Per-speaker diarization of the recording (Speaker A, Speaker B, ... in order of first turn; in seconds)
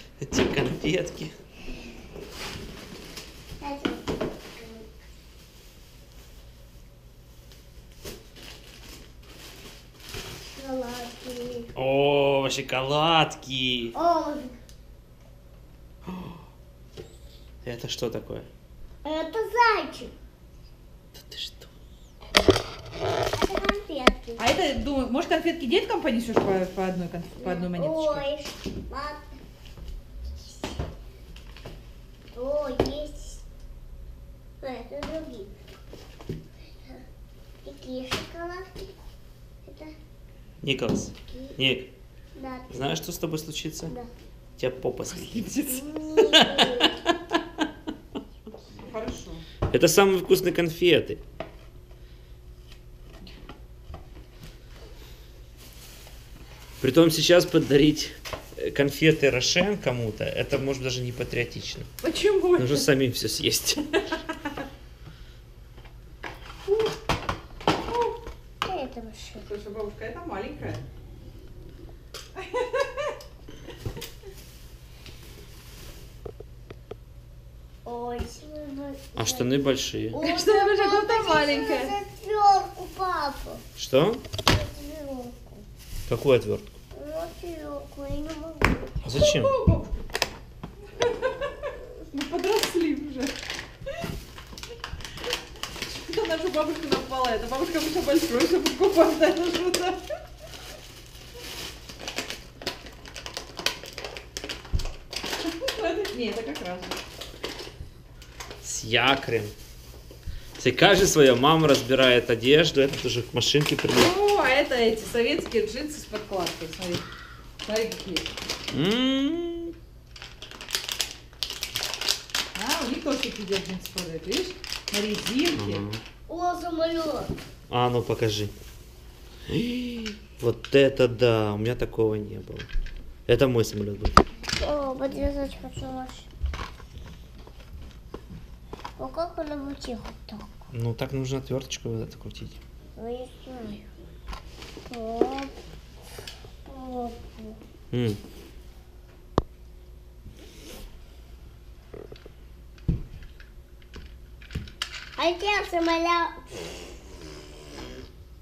Speaker A: 0.2-1.3, 11.8-13.9, 16.1-16.4, 17.6-18.5, 21.1-21.6, 40.6-41.9, 42.7-43.9, 44.6-45.6, 46.3-46.9, 49.7-51.2, 56.8-61.9, 62.5-63.9, 79.2-80.2, 83.8-84.2, 86.1-86.7, 89.0-89.5, 108.6-109.5, 110.6-114.1, 118.7-119.7, 125.5-126.0, 127.7-128.5, 129.5-132.7, 133.3-134.2, 140.7-142.6, 147.9-148.2
Speaker B: 3.6-4.8, 10.5-11.7, 13.9-14.5, 19.0-20.1, 23.3-24.4, 27.4-29.3, 32.3-33.4, 34.6-35.5, 37.6-38.9, 39.6-39.9, 41.3-41.6, 42.3-42.8, 45.7-47.1, 68.6-69.5, 77.8-83.6, 84.5-85.6, 86.9-89.2, 126.3-127.3, 134.6-136.3, 139.0-140.5, 143.0-143.8, 144.9-145.5, 146.7-147.6, 155.2-156.3
Speaker C: 24.4-28.2, 45.1-45.9, 48.8-49.4, 62.0-62.9, 67.9-68.2, 69.4-70.8, 72.3-73.1, 80.2-82.0, 89.2-89.9, 91.0-91.5, 92.0-93.3, 95.8-100.0, 105.4-107.0, 114.0-117.0, 117.6-118.3, 122.5-125.8